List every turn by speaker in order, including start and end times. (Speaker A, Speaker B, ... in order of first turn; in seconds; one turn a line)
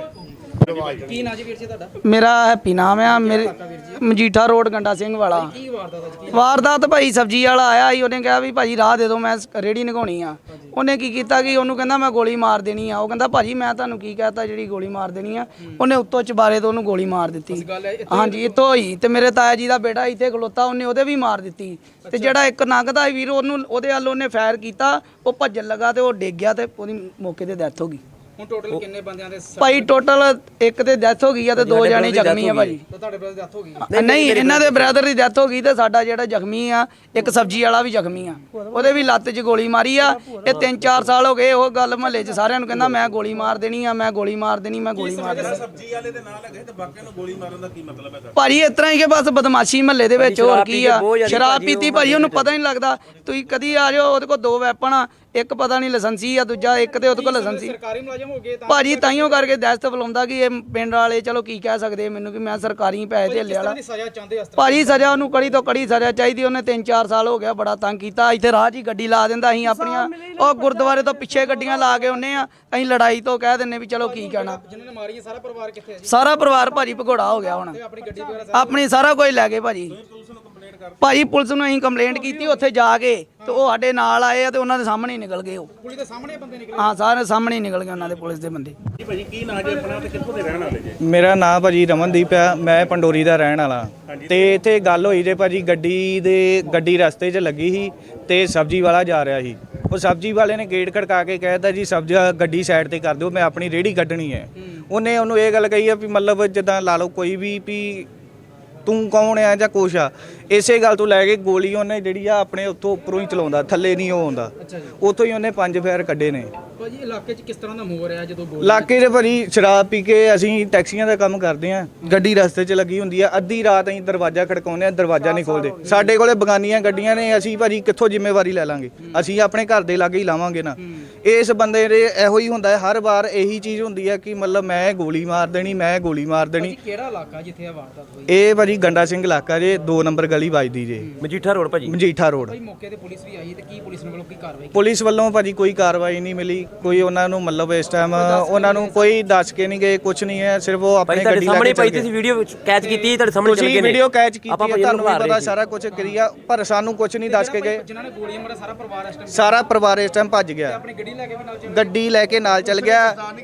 Speaker A: 0.3-1.9
Speaker B: 0.6-1.1
Speaker C: 2.0-5.5
Speaker A: 3.0-4.0
Speaker A: 5.3-6.5
Speaker C: 6.3-28.0
Speaker A: 17.5-18.6
Speaker A: 22.0-22.4
Speaker A: 28.4-29.9
Speaker C: 29.6-32.8
Speaker D: 31.6-32.8
Speaker A: 32.9-33.9
Speaker C: 33.8-45.6
Speaker D: 33.9-35.0
Speaker D: 40.5-41.1
Speaker D: 42.7-43.1
Speaker B: 45.0-48.4
Speaker C: 48.4-57.8
Speaker D: 50.2-52.5
Speaker A: 57.1-59.5
Speaker C: 58.7-63.8
Speaker A: 63.2-65.3
Speaker C: 64.6-74.6
Speaker A: 74.0-76.1
Speaker C: 76.0-77.8
Speaker A: 77.7-78.8
Speaker C: 78.5-80.0
Speaker B: 80.0-81.0
Speaker C: 81.0-85.7
Speaker A: 85.8-87.0
Speaker C: 86.8-88.8
Speaker B: 89.0-91.0
Speaker E: 91.0-108.1
Speaker B: 94.1-94.3
Speaker E: 108.8-116.5
Speaker A: 114.6-114.9
Speaker A: 116.8-118.9
Speaker E: 118.6-136.8
Speaker A: 125.6-126.1
Speaker A: 129.0-129.3
Speaker A: 136.5-138.7
Speaker E: 138.3-141.2
Speaker D: 141.2-142.0
Speaker E: 141.9-142.6
Speaker A: 142.4-144.9
Speaker E: 144.7-152.1
Speaker A: 148.1-149.2
Speaker D: 151.1-155.6
Speaker A: 152.8-153.2
Speaker E: 153.4-157.9
Speaker A: 157.2-159.6
Speaker E: 159.3-160.8
Speaker A: 160.7-161.9
Speaker E: 161.7-163.3